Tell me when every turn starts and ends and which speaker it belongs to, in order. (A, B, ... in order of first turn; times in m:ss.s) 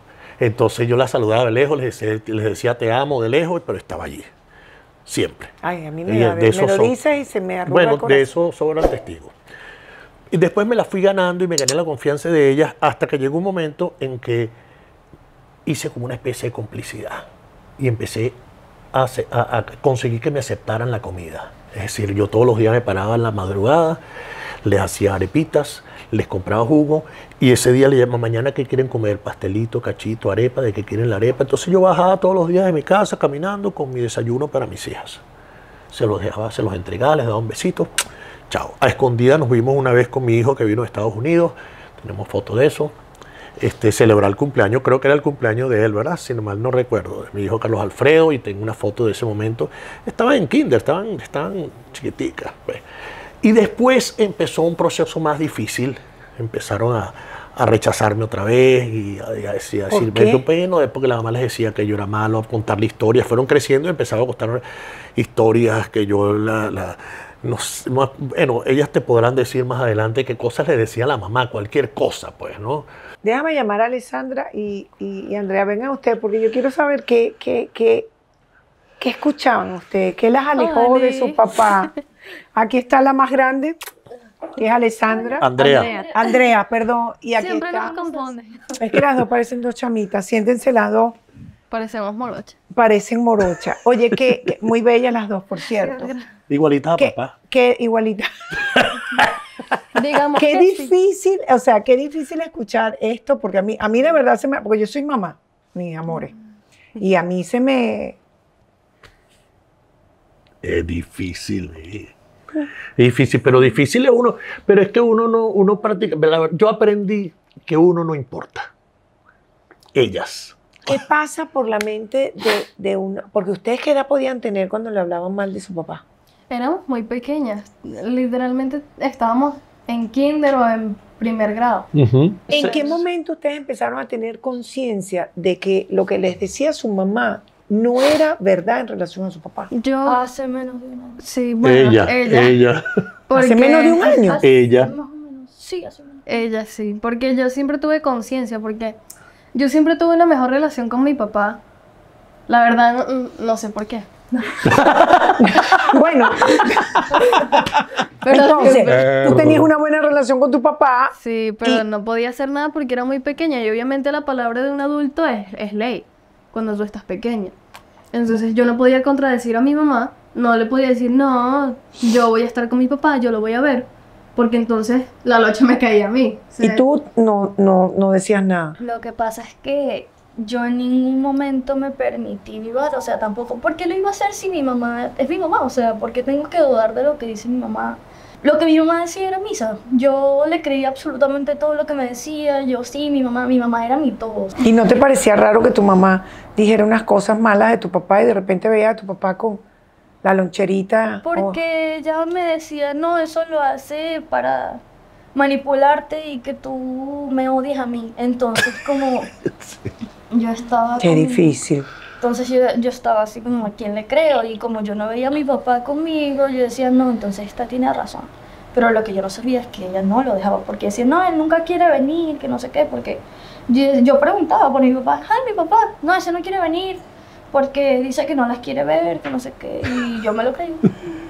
0:00.4-0:04.3 A
0:05.0-0:05.5 A
0:05.6-0:08.3 B
0:06.0-0:06.9 A
0:07.7-0:09.3 A
0:10.3-0:14.5 A
0:15.6-0:17.3 A
0:17.8-0:18.4 A
0:18.9-0:24.0 A
0:24.6-0:35.2 A
0:35.9-0:37.9 A
0:38.5-0:43.0 A
0:43.6-0:52.8 A
0:53.4-1:04.6 A
0:59.9-1:00.4 B
1:05.2-1:12.9 A
1:13.2-1:18.1 B
1:19.0-1:21.9 B
1:20.6-1:21.8 C
1:22.5-1:23.8 B
1:24.6-1:27.9 B
1:25.2-1:26.2 D
1:25.4-1:25.9 A
1:25.6-1:26.3 C
1:27.4-1:28.5 C
1:27.7-1:28.8 D
1:28.8-1:31.2 B
1:31.7-1:32.6 C
1:32.7-1:36.1 B
1:36.5-1:37.3 A
1:37.0-1:38.3 B
1:38.7-1:39.3 A
1:39.9-1:40.9 C
1:40.4-1:46.3 B
1:47.0-1:48.2 B
1:50.6-1:52.1 A
1:53.0-1:58.7 A
1:59.9-2:01.0 A
2:00.9-2:06.0 B
2:06.5-2:11.9 C
2:11.9-2:13.0 A
2:12.5-2:19.7 B
2:19.7-2:20.2 C
2:20.0-2:21.2 D
2:21.2-2:22.6 C
2:21.6-2:22.8 A
2:23.3-2:24.3 C
2:23.3-2:24.4 B
2:24.0-2:26.4 D
2:24.4-2:24.9 A
2:26.3-2:29.0 C
2:29.5-2:31.6 C
2:32.5-2:34.9 C
2:34.6-2:35.9 A
2:35.4-2:37.6 B
2:37.0-2:37.7 A
2:38.2-2:39.1 C
2:38.3-2:41.8 B
2:38.9-2:39.7 A
2:41.2-2:47.5 C
2:48.1-2:56.8 C
2:56.6-2:58.8 B
2:58.8-3:14.6 D
3:14.6-3:19.6 B
3:20.2-3:21.6 B
3:21.2-3:24.8 D
3:25.3-3:29.3 D
3:30.3-3:31.5 D
3:31.0-3:31.9 B
3:32.2-3:51.0 D